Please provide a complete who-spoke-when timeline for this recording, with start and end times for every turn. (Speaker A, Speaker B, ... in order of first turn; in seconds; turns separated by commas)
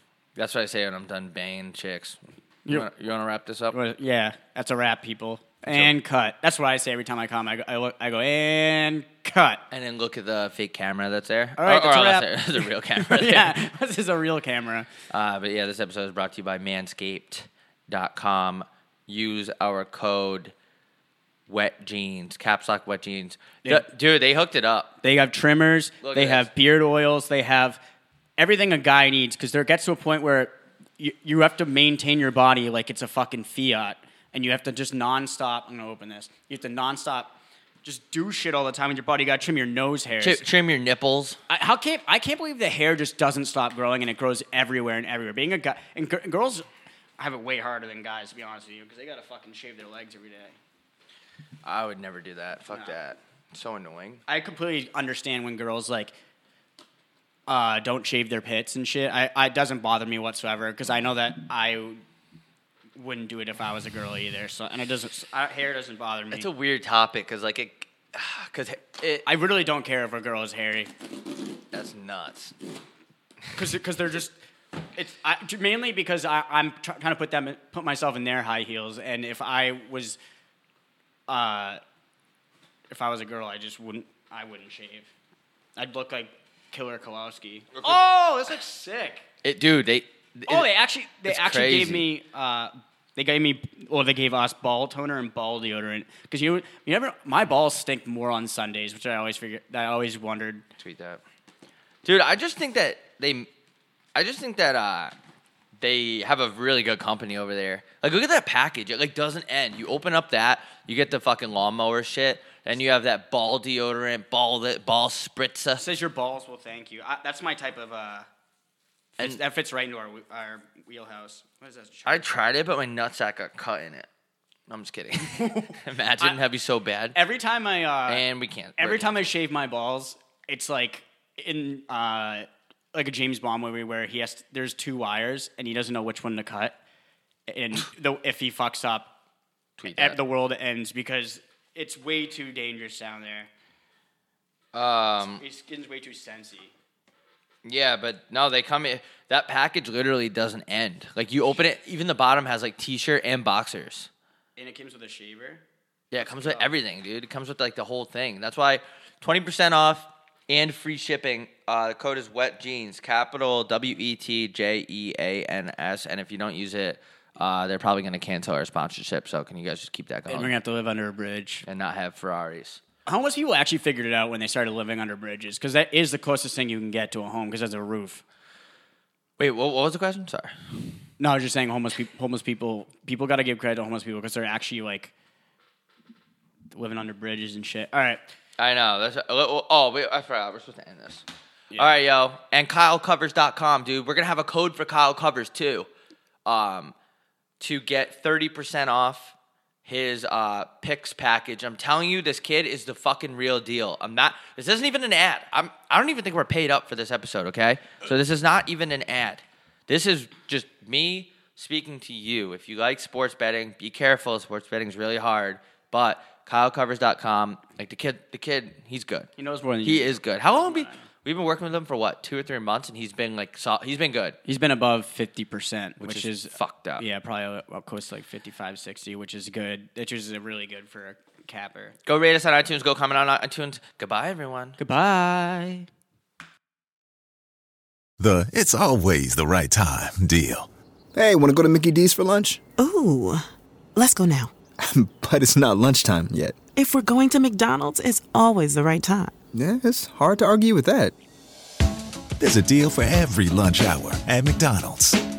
Speaker A: 0.3-3.8, Speaker B: 3.7-9.6, Speaker A: 9.7-13.6, Speaker B: 11.6-14.9, Speaker A: 15.1-20.5, Speaker A: 21.5-24.9, Speaker B: 23.6-23.9, Speaker B: 25.0-27.8, Speaker A: 26.0-26.5, Speaker B: 28.4-40.4, Speaker A: 40.2-41.4, Speaker B: 41.5-46.7, Speaker B: 47.2-50.6, Speaker A: 51.6-54.2, Speaker B: 54.3-56.1, Speaker B: 57.5-62.0, Speaker B: 62.9-66.5, Speaker A: 66.3-69.3, Speaker B: 69.2-70.9, Speaker A: 71.7-72.5, Speaker B: 73.5-74.3, Speaker B: 74.9-80.2, Speaker B: 81.3-81.8, Speaker B: 82.9-85.1, Speaker B: 85.8-89.2, Speaker A: 87.7-88.0, Speaker A: 89.4-90.7, Speaker B: 90.5-100.7, Speaker A: 91.2-92.1, Speaker A: 100.8-101.2, Speaker A: 102.0-103.5, Speaker A: 104.1-105.1, Speaker A: 105.8-115.8, Speaker B: 115.8-118.3, Speaker B: 119.2-122.2, Speaker A: 122.0-124.1, Speaker A: 124.7-127.2, Speaker B: 125.2-126.4, Speaker B: 127.1-128.2, Speaker A: 128.1-129.2, Speaker B: 128.8-136.8, Speaker B: 137.5-139.2, Speaker A: 139.8-140.2, Speaker B: 139.8-143.5, Speaker A: 144.7-145.4, Speaker B: 145.4-146.7, Speaker A: 147.6-154.1, Speaker B: 154.6-155.6, Speaker A: 156.1-170.5, Speaker B: 156.2-156.7, Speaker B: 170.3-171.7, Speaker A: 171.7-172.8, Speaker B: 173.1-178.2, Speaker A: 179.4-180.6, Speaker B: 181.2-185.1, Speaker B: 186.7-188.2, Speaker A: 188.6-195.9, Speaker A: 196.4-196.9, Speaker A: 197.6-219.3, Speaker B: 219.4-221.1, Speaker A: 219.8-224.4, Speaker B: 224.4-231.9, Speaker A: 226.0-227.0, Speaker A: 232.1-234.8, Speaker B: 234.8-235.9, Speaker C: 238.2-240.7, Speaker D: 241.1-242.6, Speaker E: 242.8-244.5, Speaker D: 244.8-246.6, Speaker E: 246.8-249.3, Speaker D: 249.5-251.1, Speaker C: 252.4-255.2